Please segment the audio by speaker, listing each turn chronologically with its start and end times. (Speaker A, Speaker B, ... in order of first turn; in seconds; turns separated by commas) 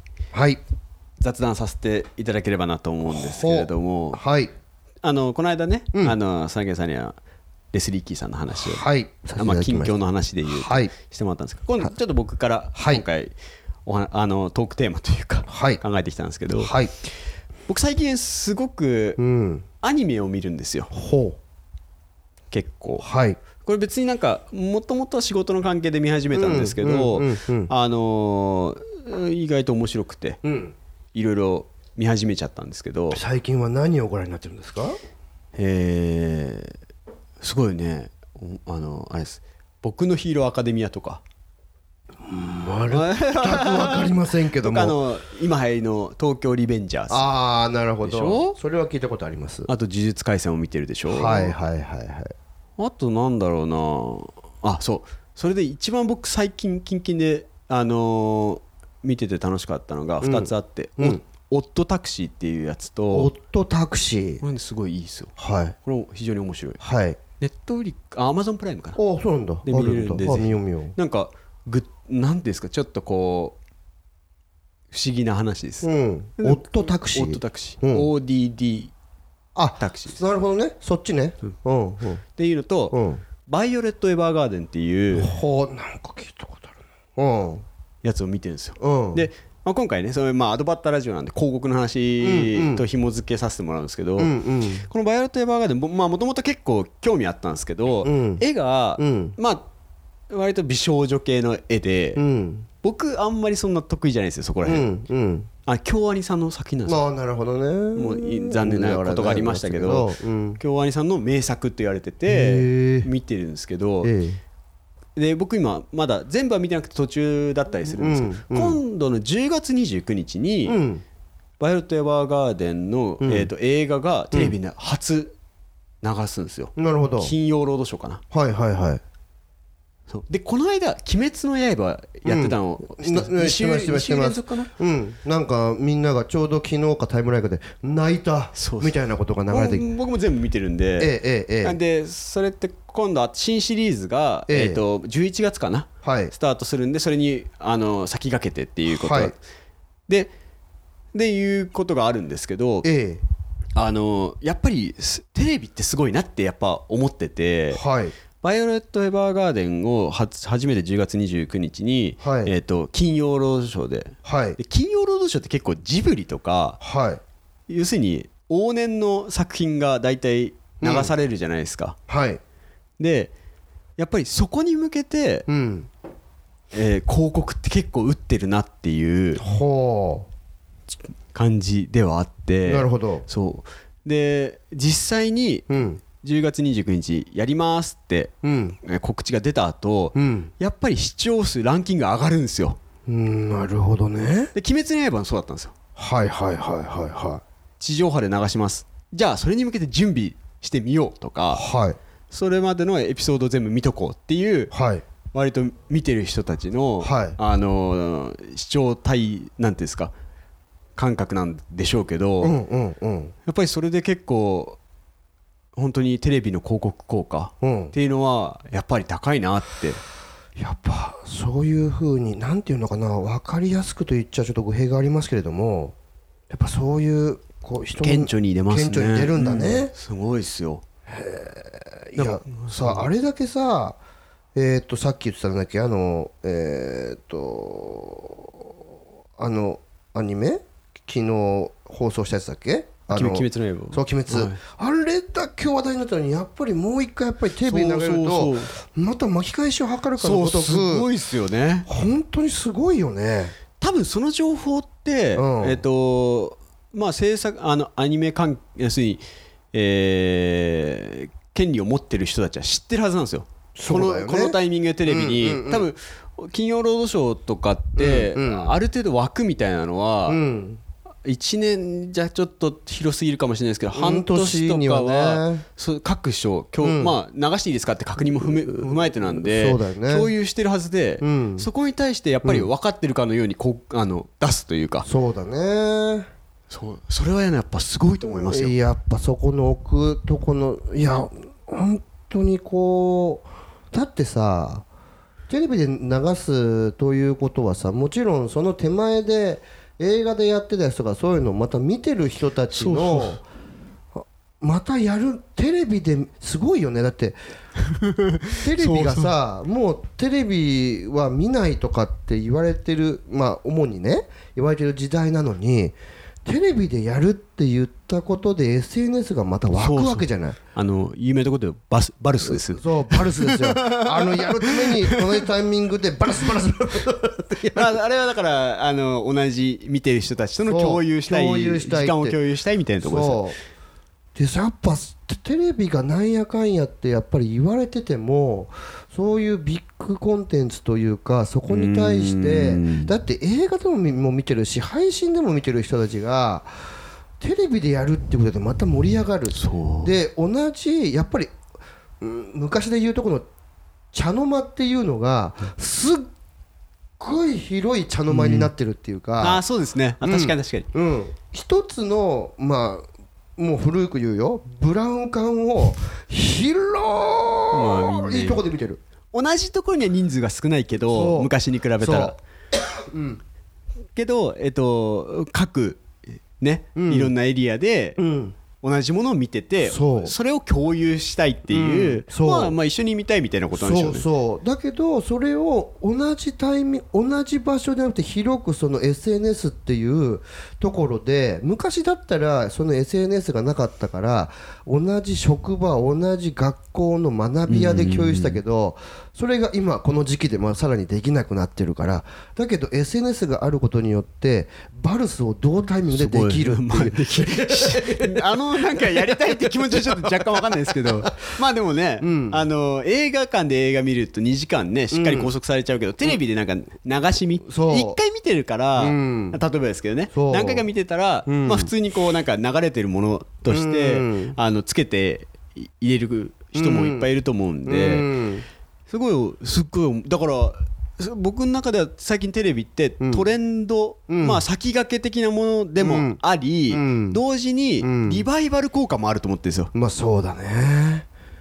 Speaker A: 0.3-0.6, Speaker B: 1.2-4.2, Speaker A: 3.1-4.5, Speaker B: 5.0-7.2, Speaker B: 7.7-8.8, Speaker A: 8.5-9.9, Speaker B: 9.4-13.3, Speaker A: 10.4-10.9, Speaker A: 12.8-13.0, Speaker B: 13.9-16.8, Speaker A: 15.5-15.8, Speaker A: 16.6-16.9, Speaker B: 17.7-19.2, Speaker A: 19.2-19.7, Speaker B: 19.8-20.9, Speaker A: 20.9-21.4, Speaker B: 22.5-23.0, Speaker A: 23.0-23.4, Speaker B: 23.6-30.4, Speaker A: 26.3-27.7, Speaker A: 30.4-30.8, Speaker B: 31.1-33.2, Speaker A: 33.1-35.0, Speaker B: 35.6-36.8, Speaker B: 37.4-41.2, Speaker A: 42.2-44.9, Speaker B: 42.9-47.3, Speaker A: 47.1-49.7, Speaker B: 48.0-48.6, Speaker B: 49.7-51.5, Speaker A: 51.1-52.3, Speaker B: 52.8-63.3, Speaker A: 60.2-61.2, Speaker A: 63.1-64.4, Speaker B: 64.4-66.8, Speaker A: 65.4-65.8, Speaker A: 66.8-67.2, Speaker B: 67.4-69.0, Speaker A: 69.0-71.0, Speaker B: 69.7-73.6, Speaker B: 74.9-78.9, Speaker A: 75.8-78.1, Speaker A: 79.5-82.2, Speaker B: 79.8-80.2, Speaker B: 82.3-85.3, Speaker A: 82.9-83.2, Speaker A: 85.1-87.6, Speaker B: 88.0-94.3, Speaker A: 88.8-89.3, Speaker A: 92.2-92.8, Speaker A: 94.2-94.9, Speaker B: 94.9-99.7, Speaker A: 98.0-98.4, Speaker A: 99.0-99.3, Speaker B: 100.3-102.2, Speaker A: 102.2-102.7, Speaker B: 102.8-104.9, Speaker A: 104.7-105.5, Speaker B: 105.7-107.0, Speaker A: 106.9-110.6, Speaker B: 108.0-114.1, Speaker A: 112.3-113.1, Speaker A: 114.0-114.4, Speaker B: 115.2-120.8, Speaker A: 118.0-118.8, Speaker A: 120.7-121.0, Speaker B: 121.6-125.3, Speaker A: 123.2-123.5, Speaker B: 126.0-128.2, Speaker A: 126.8-127.3, Speaker A: 128.3-129.0, Speaker B: 130.1-134.7, Speaker A: 132.2-139.8, Speaker B: 138.6-139.0, Speaker B: 139.5-149.4, Speaker A: 141.0-141.8, Speaker A: 144.5-144.8, Speaker A: 146.0-146.3, Speaker A: 148.9-149.3, Speaker B: 151.1-152.9, Speaker A: 152.8-153.2, Speaker B: 153.8-157.8, Speaker A: 157.7-158.1, Speaker B: 158.4-166.8, Speaker A: 162.2-162.5, Speaker A: 164.2-164.6, Speaker A: 166.8-167.2, Speaker B: 167.7-172.0, Speaker A: 170.8-171.1, Speaker A: 172.1-172.4, Speaker B: 173.0-173.3, Speaker B: 174.0-175.5, Speaker A: 175.5-175.9, Speaker B: 176.7-179.4, Speaker A: 179.4-180.3, Speaker B: 181.3-192.8, Speaker A: 182.7-183.3, Speaker A: 185.7-186.0, Speaker A: 188.4-188.8, Speaker A: 190.2-190.5, Speaker A: 193.1-194.5, Speaker B: 194.5-195.7, Speaker A: 196.0-197.4, Speaker B: 197.8-201.6, Speaker A: 201.5-202.0, Speaker B: 202.3-204.7, Speaker A: 204.7-205.0, Speaker B: 205.3-210.1, Speaker A: 207.0-207.4, Speaker B: 211.0-212.6, Speaker A: 212.4-213.3, Speaker B: 213.5-214.8, Speaker B: 215.8-220.0, Speaker A: 217.6-217.9, Speaker A: 220.6-225.9, Speaker A: 226.5-229.9, Speaker B: 228.0-230.8, Speaker A: 231.1-234.0, Speaker B: 232.2-233.1, Speaker A: 234.6-238.7, Speaker A: 239.4-251.1, Speaker B: 243.1-244.6, Speaker B: 247.7-248.7, Speaker B: 250.2-251.9, Speaker A: 251.9-253.6, Speaker B: 253.8-259.2, Speaker A: 255.4-255.8, Speaker B: 259.7-270.4, Speaker A: 263.8-265.9, Speaker A: 268.0-268.8, Speaker A: 270.3-270.8, Speaker B: 271.2-285.1, Speaker A: 273.9-275.6, Speaker A: 276.8-277.1, Speaker A: 278.8-280.3, Speaker A: 281.2-281.7, Speaker A: 285.0-286.3, Speaker B: 286.7-288.8, Speaker A: 288.3-294.9, Speaker A: 295.5-303.4, Speaker B: 302.7-303.4, Speaker A: 304.6-307.4, Speaker B: 307.8-309.3, Speaker A: 308.6-320.6, Speaker B: 319.7-325.4, Speaker A: 322.4-327.9, Speaker B: 327.7-333.4, Speaker A: 330.7-332.4, Speaker A: 333.0-333.6, Speaker A: 334.4-346.7, Speaker B: 341.7-343.1, Speaker A: 347.4-351.5, Speaker B: 349.5-350.1, Speaker A: 352.2-353.5, Speaker A: 354.1-356.3, Speaker A: 357.2-359.6, Speaker B: 358.3-358.7, Speaker B: 359.4-360.9, Speaker A: 360.2-369.0, Speaker B: 367.7-368.6, Speaker B: 369.3-372.4, Speaker A: 371.1-373.4, Speaker B: 374.1-376.0, Speaker B: 376.6-378.2, Speaker A: 377.0-377.3, Speaker A: 378.2-378.6, Speaker B: 378.8-384.2, Speaker A: 379.9-380.3, Speaker A: 381.7-382.8, Speaker A: 383.7-411.3, Speaker B: 397.7-398.6, Speaker B: 406.1-428.3, Speaker A: 412.2-412.6, Speaker A: 415.1-415.5, Speaker A: 417.7-418.2, Speaker A: 419.0-419.6, Speaker A: 420.3-420.9, Speaker A: 421.5-421.9, Speaker A: 423.7-424.6, Speaker A: 426.8-427.3, Speaker A: 427.9-428.6, Speaker B: 429.1-439.9, Speaker A: 433.2-433.5, Speaker A: 434.3-434.6, Speaker A: 436.0-436.4, Speaker A: 436.9-437.4, Speaker A: 438.0-438.4, Speaker A: 439.9-441.3